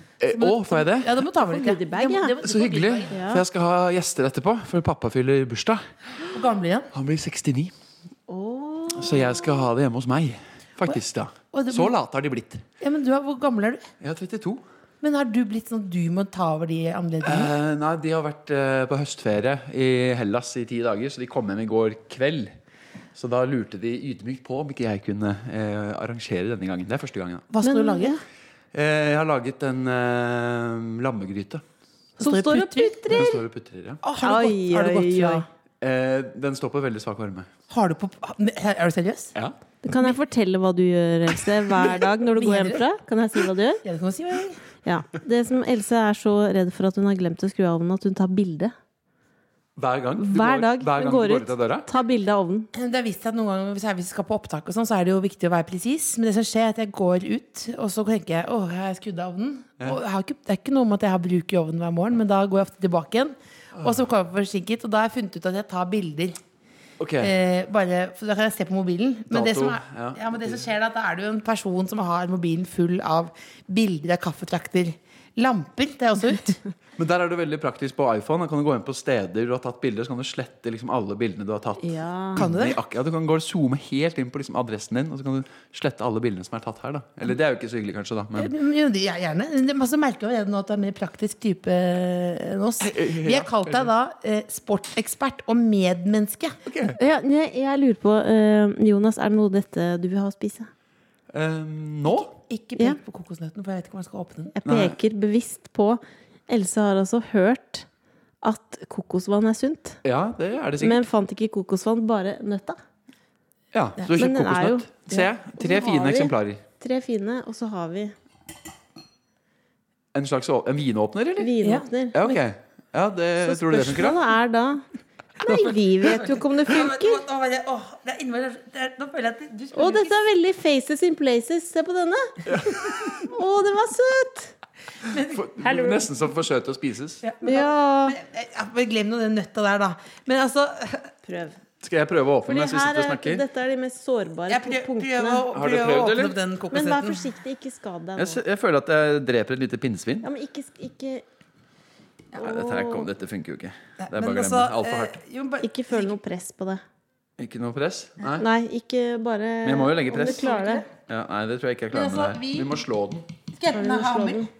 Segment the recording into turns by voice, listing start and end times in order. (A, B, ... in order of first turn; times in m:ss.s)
0:00.2-0:01.2 A
0:00.3-0:03.2 B
0:01.4-0:02.3 C
0:02.4-0:05.9 A
0:03.1-0:03.4 C
0:06.3-0:06.9 B
0:06.9-0:07.7 A
0:08.3-0:09.6 C
0:08.9-0:12.6 A
0:11.5-0:11.9 B
0:12.8-0:13.9 B
0:14.0-0:14.6 A
0:15.0-0:17.5 B
0:17.2-0:22.5 A
0:23.1-0:27.5 A
0:27.5-0:28.2 B
0:27.6-0:28.2 C
0:28.7-0:31.6 A
0:32.2-0:33.3 B
0:32.2-0:33.4 C
0:33.1-0:34.0 A
0:34.0-0:35.4 B
0:34.2-0:35.4 C
0:35.8-0:37.5 A
0:37.7-0:39.3 B
0:39.8-0:43.8 C
0:41.8-0:42.8 B
0:43.8-0:44.6 B
0:44.8-0:48.7 C
0:49.8-0:51.9 A
0:50.2-0:52.7 C
0:52.7-1:06.4 B
1:07.0-1:07.3 A
1:07.2-1:16.6 B
1:09.3-1:10.6 A
1:17.0-1:28.5 A
1:21.8-1:22.4 C
1:22.4-1:22.8 B
1:28.3-1:36.6 B
1:32.8-1:33.9 A
1:36.6-1:37.0 A
1:37.0-1:40.7 C
1:41.3-1:42.3 A
1:42.1-1:44.5 B
1:44.5-1:47.9 C
1:44.6-1:45.0 A
1:48.4-1:50.0 C
1:50.0-1:51.0 A
1:50.8-1:52.8 C
1:53.7-1:56.6 A
1:54.1-1:58.1 C
2:00.1-2:01.5 A
2:01.4-2:02.4 C
2:02.1-2:04.2 A
2:03.5-2:04.8 C
2:05.4-2:07.2 C
2:06.0-2:10.2 B
2:09.7-2:12.6 C
2:12.4-2:13.2 A
2:13.2-2:14.5 C
2:15.1-2:16.0 B
2:15.2-2:17.2 A
2:17.2-2:21.1 B
2:17.4-2:18.2 C
2:21.2-2:21.6 C
2:21.8-2:23.4 A
2:22.4-2:25.4 C
2:24.5-2:27.2 B
2:25.5-2:26.4 A
2:26.7-2:28.4 C
2:28.2-2:30.3 A
2:30.2-2:31.2 C
2:32.4-2:33.1 C
2:32.4-2:35.1 A
2:34.0-2:36.2 B
2:35.6-2:36.8 C
2:37.4-2:38.5 A
2:38.4-2:40.8 C
2:39.6-2:43.2 A
2:40.2-2:40.9 B
2:41.9-2:42.8 B
2:43.5-2:44.5 B
2:43.7-2:44.5 C